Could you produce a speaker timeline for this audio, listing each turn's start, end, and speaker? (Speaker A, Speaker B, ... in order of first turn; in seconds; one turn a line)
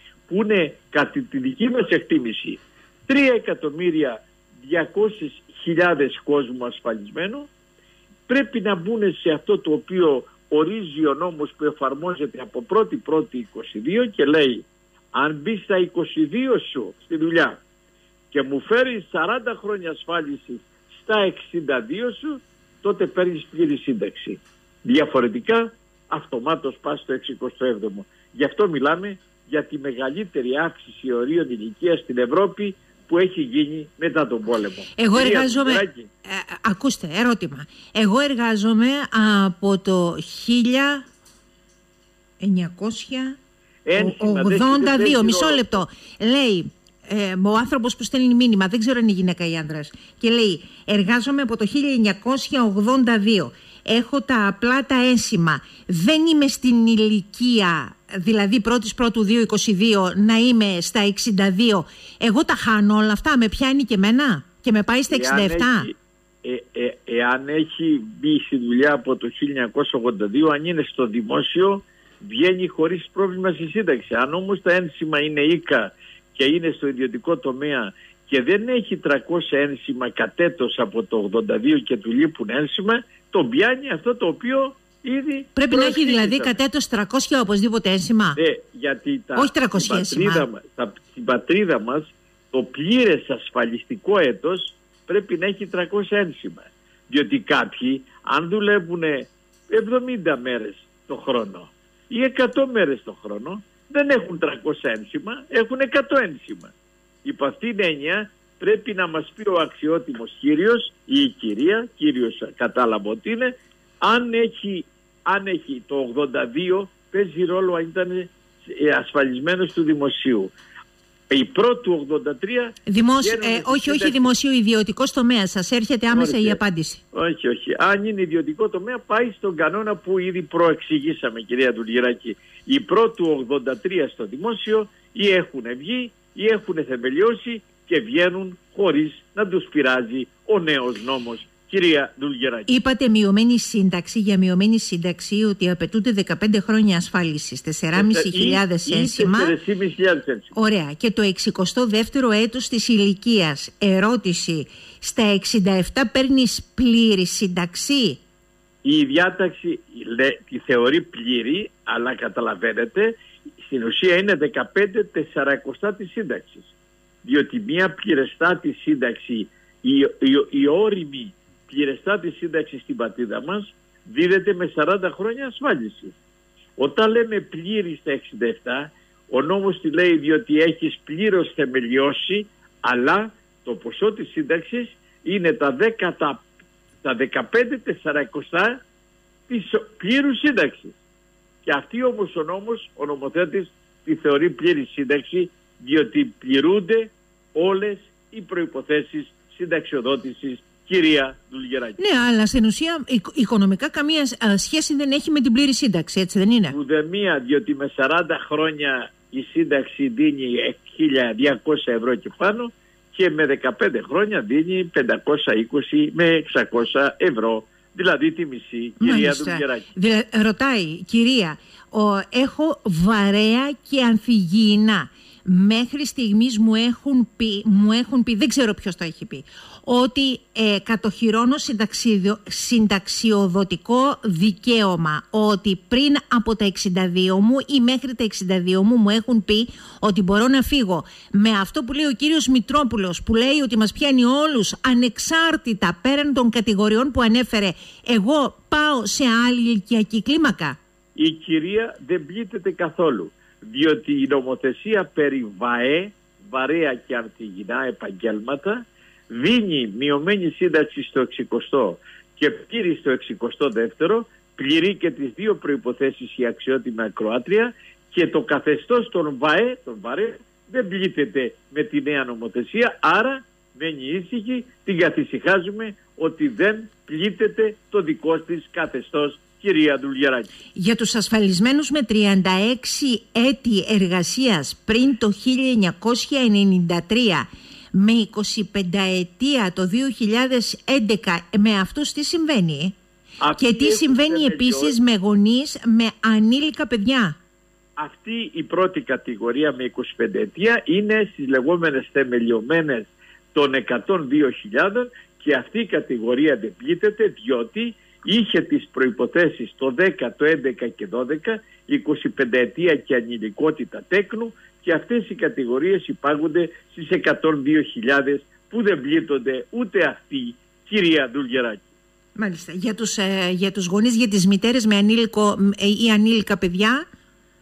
Speaker A: 0.3-7.5
Speaker A: 8.3-17.6
Speaker A: 18.3-36.1
Speaker B: 35.0-41.0
Speaker B: 42.4-43.4
Speaker A: 43.8-45.8
Speaker B: 44.0-65.9
Speaker A: 65.1-86.6
Speaker B: 85.5-88.4
Speaker A: 88.3-106.7
Speaker B: 89.3-90.5
Speaker A: 107.2-113.5
Speaker A: 114.0-120.5
Speaker A: 121.3-124.3
Speaker B: 122.9-127.0
Speaker A: 126.1-126.6
Speaker A: 127.1-142.7
Speaker B: 142.7-149.5
Speaker A: 147.9-150.5
Speaker B: 150.5-158.2
Speaker A: 158.8-166.7
Speaker A: 167.2-176.2
Speaker A: 176.8-186.4
Speaker A: 187.0-188.8
Speaker A: 189.5-190.9
Speaker A: 191.6-202.0
Speaker B: 202.0-206.8
Speaker A: 206.7-219.8
Speaker B: 219.0-250.8
Speaker A: 251.2-280.5
Speaker B: 280.7-292.9
Speaker A: 293.4-294.9
Speaker B: 293.6-297.4
Speaker A: 298.0-321.9
Speaker B: 322.4-327.0